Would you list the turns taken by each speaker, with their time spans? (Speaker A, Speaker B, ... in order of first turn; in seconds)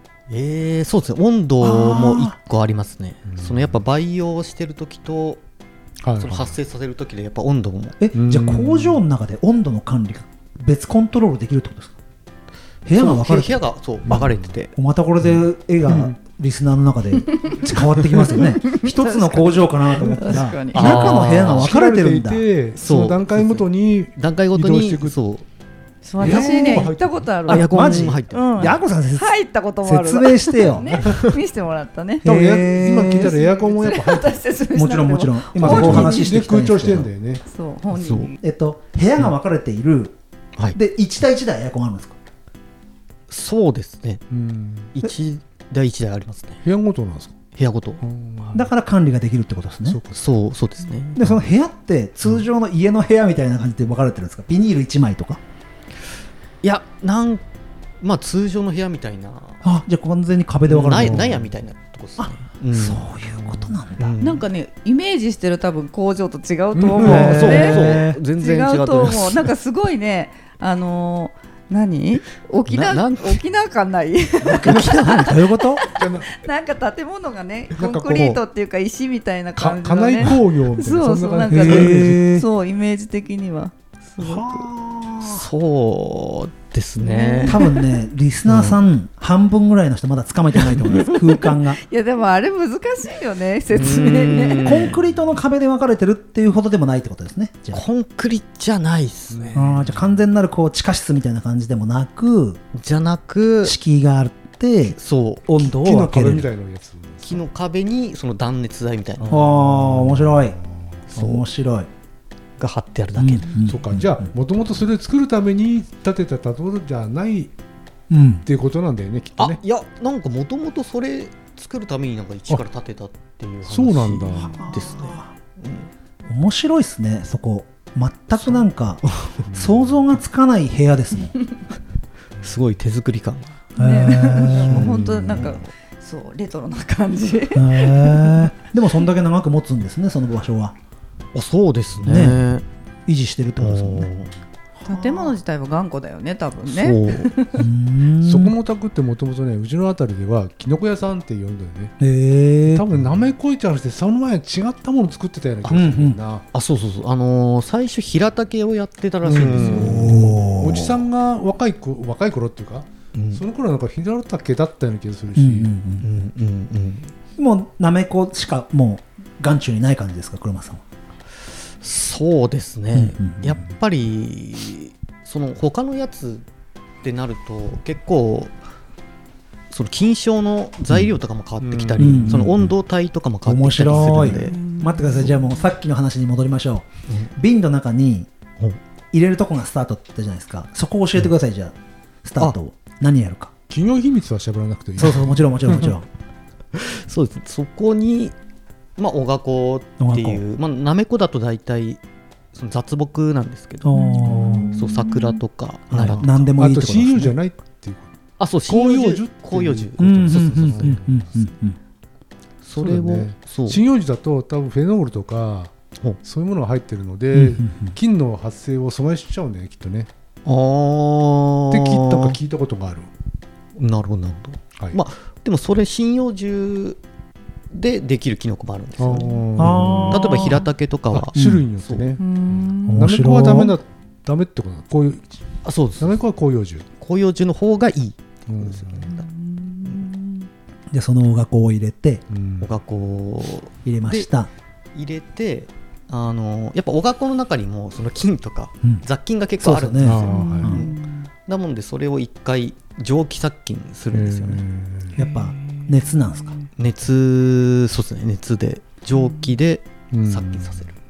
Speaker A: 0.3-5.4, 6.2-8.0, 12.9-14.7, 20.7-21.7, 22.8-25.4, 27.5-28.7, 37.9-38.3, 43.3-44.2, 44.9-46.6, 47.5-48.0, 50.1-51.2, 56.6-57.4, 58.0-59.6, 60.7-64.5, 67.0-69.5, 72.7-73.4, 74.6-74.9, 78.1-78.4, 85.2-87.6, 88.5-88.8, 93.7-95.0, 97.7-99.8, 102.7-103.8, 104.9-105.7, 107.2-109.4, 111.1-111.5, 112.6-113.5, 119.4-125.9, 128.4-129.4, 132.4-133.6, 141.3-142.7, 143.6-144.3, 146.7-147.4, 156.5-160.4, 163.1-163.4, 166.0-167.1, 171.8-176.4, 177.0-178.6, 179.7-184.6, 196.7-198.4, 199.0-202.0, 202.5-204.0, 204.7-206.4, 208.4-211.4, 212.6-213.8, 220.4-222.4, 223.8-227.0, 227.7-229.4, 230.1-232.1, 235.6-236.2, 237.0-239.3, 242.6-244.3, 244.9-254.6, 256.8-261.0
Speaker B: 1.6-2.4, 8.0-12.0, 12.8-13.7, 14.8-22.4, 26.2-26.9, 27.5-31.1, 32.2-33.4, 34.7-37.1, 38.4-40.1, 40.7-42.2, 48.5-50.0, 51.1-55.4, 59.6-61.4, 62.2-64.1, 67.0-68.2, 74.5-75.9, 81.5-82.5, 84.2-85.5, 87.5-91.8, 94.6-97.8, 99.5-102.6, 103.6-106.5, 109.3-110.6, 111.1-111.9, 113.2-114.2, 118.1-118.5, 124.4-125.3, 126.3-131.3, 133.8-135.5, 137.5-140.8, 142.0-142.4, 143.1-144.1, 144.8-145.4, 147.6-148.6, 152.0-153.0, 155.7-156.2, 159.6-161.0, 165.4-166.0, 167.4-170.8, 172.9-173.6, 182.0-182.7, 183.4-188.3, 189.1-193.5, 195.0-196.1, 200.0-200.4, 203.8-204.8, 205.9-207.3, 210.0-211.8, 217.3-217.9, 229.6-230.7, 231.3-231.7, 232.9-233.8, 240.9-242.2, 243.8-244.5, 249.6-250.9, 255.2-256.6
Speaker C: 3.3-3.8, 6.0-6.6, 8.2-9.0, 14.1-14.5, 15.3-16.1, 21.5-25.2, 26.2-28.2, 30.7-31.2, 32.2-34.4, 35.6-37.4, 44.3-44.9, 46.6-47.4, 48.0-48.7, 49.9-50.2, 60.9-61.5, 66.7-67.6, 75.9-76.4, 77.8-78.4, 79.6-82.2, 99.3-100.1, 105.7-107.5, 109.2-111.0, 113.6-117.5, 118.5-119.6, 123.7-124.6, 129.5-130.0, 134.5-135.5, 148.2-152.0, 152.7-156.4, 159.2-165.7, 181.6-182.6, 183.9-184.4, 193.7-196.0, 204.2-204.9, 206.1-208.1, 208.7-211.2, 212.8-215.7, 216.2-220.1, 221.7-223.1, 229.0-230.2, 231.1-235.4, 236.0-236.9, 238.5-239.1, 242.3-242.7, 250.0-250.8, 254.1-255.2, 260.1-260.9
Speaker D: 17.3-17.6, 18.1-21.2, 26.0-36.4, 37.5-38.4, 64.2-84.7, 87.0-87.9, 91.0-94.9, 133.8-138.5, 144.8-147.7, 184.4-185.7, 203.9-205.4, 232.2-233.1, 239.1-240.5, 250.3-251.3, 255.2-256.7, 259.1-259.5